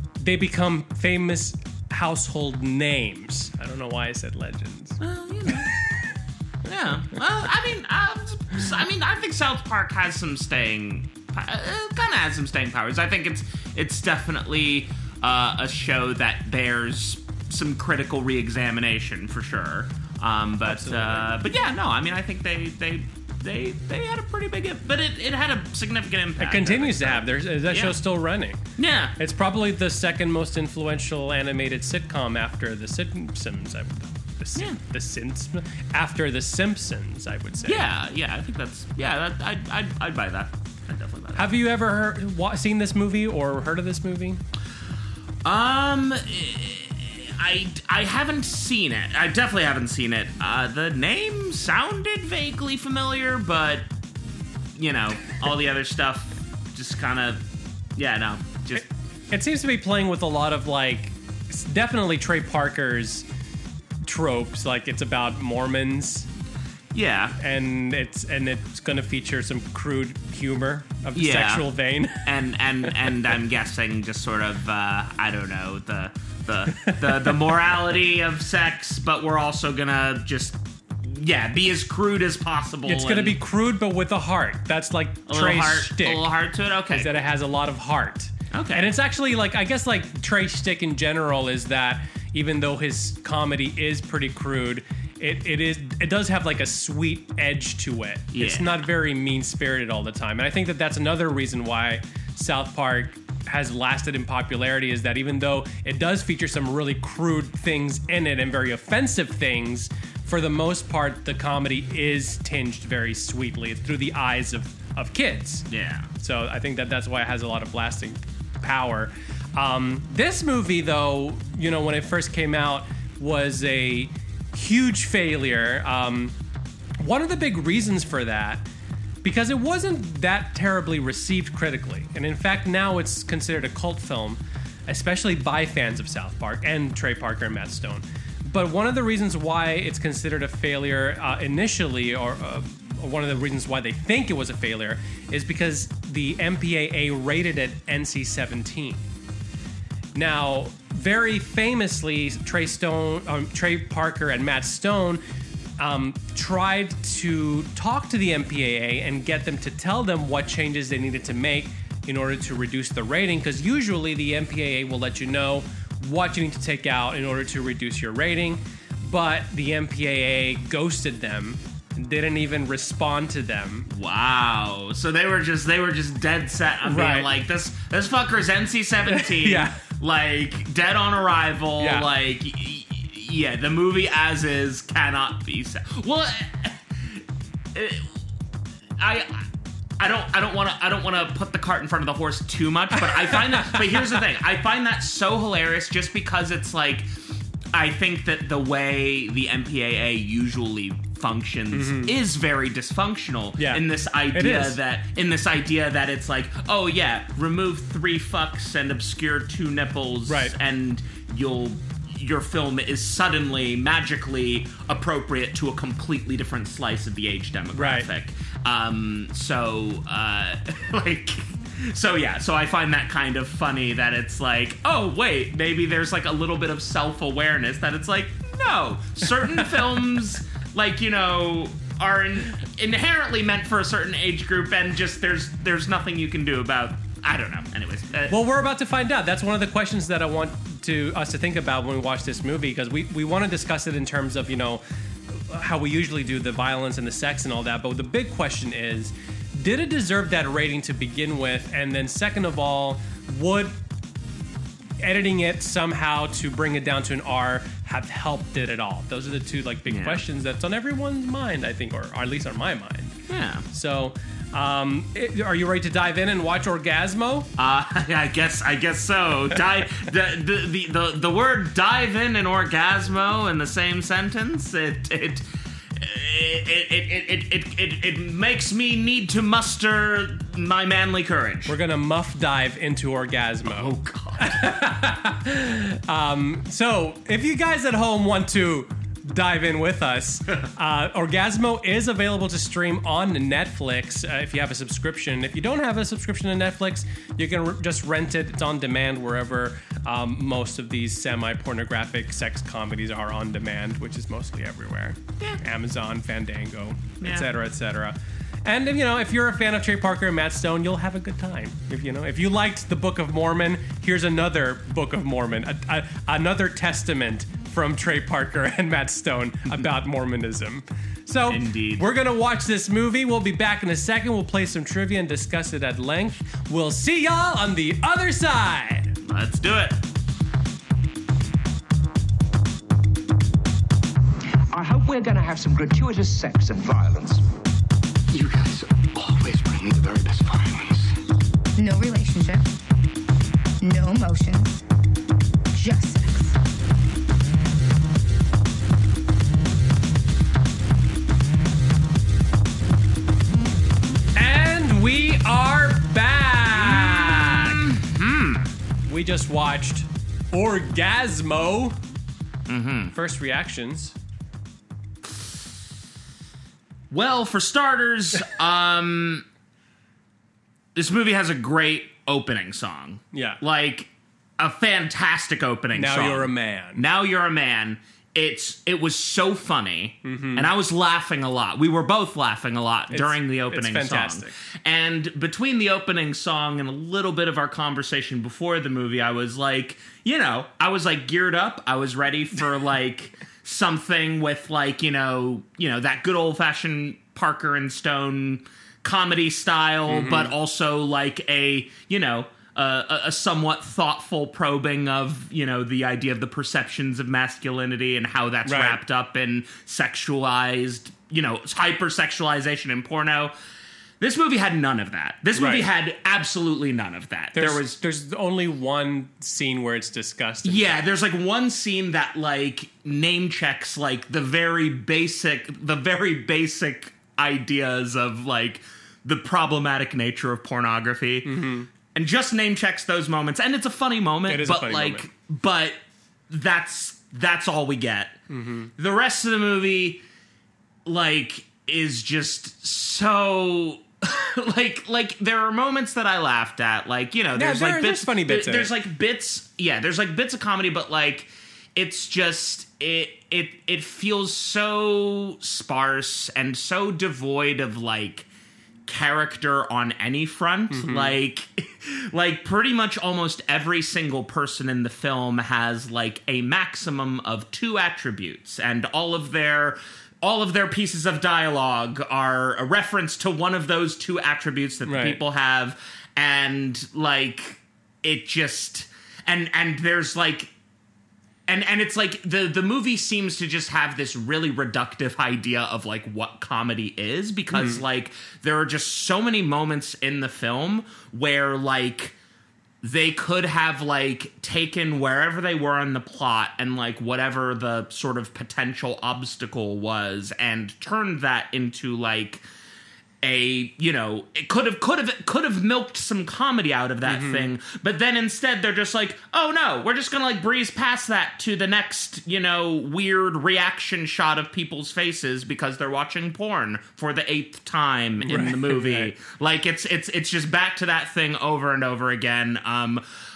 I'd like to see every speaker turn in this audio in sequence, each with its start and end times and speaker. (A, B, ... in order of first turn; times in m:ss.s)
0:00.2-0:06.0 A
0:05.0-0:05.8 B
0:06.6-0:28.0 B
0:20.7-0:21.3 A
0:26.4-0:28.6 A
0:28.8-0:29.2 B
0:29.2-0:37.9 A
0:37.7-0:41.5 B
0:41.4-0:44.4 A
0:45.4-0:53.9 B
0:54.8-0:57.4 B
0:58.0-0:58.9 B
0:58.7-1:03.2 A
1:04.0-1:06.3 A
1:06.9-1:07.4 B
1:07.4-1:12.3 A
1:11.1-1:11.7 B
1:12.2-1:23.4 B
1:16.7-1:17.6 A
1:22.8-1:26.2 A
1:25.3-1:27.1 B
1:26.9-1:55.7 A
1:28.5-1:28.9 B
1:38.3-1:38.8 B
1:55.7-1:56.1 B
1:56.2-2:06.3 A
2:07.0-2:08.6 A
2:09.2-2:29.0 A
2:30.1-2:35.2 A
2:35.8-2:53.9 A
2:53.9-3:07.2 B
2:56.9-2:57.3 A
2:59.1-2:59.8 A
3:01.8-3:02.1 A
3:07.7-3:08.2 B
3:09.0-3:09.5 B
3:10.0-3:17.1 B
3:13.0-3:13.8 A
3:17.7-3:58.4 B
3:21.7-3:22.1 A
3:24.3-3:24.8 A
3:30.3-3:30.6 A
3:37.7-3:38.1 A
3:58.3-4:13.8 A
4:15.0-4:23.2 A
4:19.9-4:20.2 B
4:23.3-4:23.6 B
4:23.7-4:27.5 A
4:27.6-4:41.7 B
4:41.7-5:29.1 A
4:43.6-4:44.8 B
5:07.2-5:07.5 B
5:21.5-5:22.1 B
5:29.2-5:30.0 B
5:34.7-5:37.4 C
5:38.3-5:41.2 D
5:41.8-5:42.7 E
5:43.8-5:44.7 E
5:45.7-5:46.5 E
5:54.4-5:57.8 A
5:56.8-5:58.7 B
5:59.1-6:02.0 A
6:02.7-6:03.1 B
6:03.1-6:04.1 A
6:05.2-6:05.6 B
6:07.1-6:09.4 B
6:10.9-6:53.5 B
6:13.3-6:13.6 A
6:16.0-6:17.0 A
6:20.2-6:20.7 A
6:23.1-6:24.5 A
6:40.1-6:40.5 A
6:48.6-6:49.0 A
6:54.2-6:58.0 B
6:55.5-6:55.9 A
6:57.5-7:01.0 A
7:00.6-7:11.6 B
7:11.4-7:11.9 A
7:12.1-7:18.4 B
7:14.5-7:15.3 A
7:18.5-7:18.9 A
7:19.0-7:20.2 B
7:21.0-7:38.5 B
7:27.5-7:28.9 A
7:39.1-8:00.7 B
7:40.9-7:41.4 A
7:55.0-7:55.4 A
8:01.7-8:12.4 B
8:07.7-8:08.0 A
8:13.0-8:22.6 B
8:23.4-8:43.2 B
8:27.2-8:27.7 A
8:38.4-8:39.3 A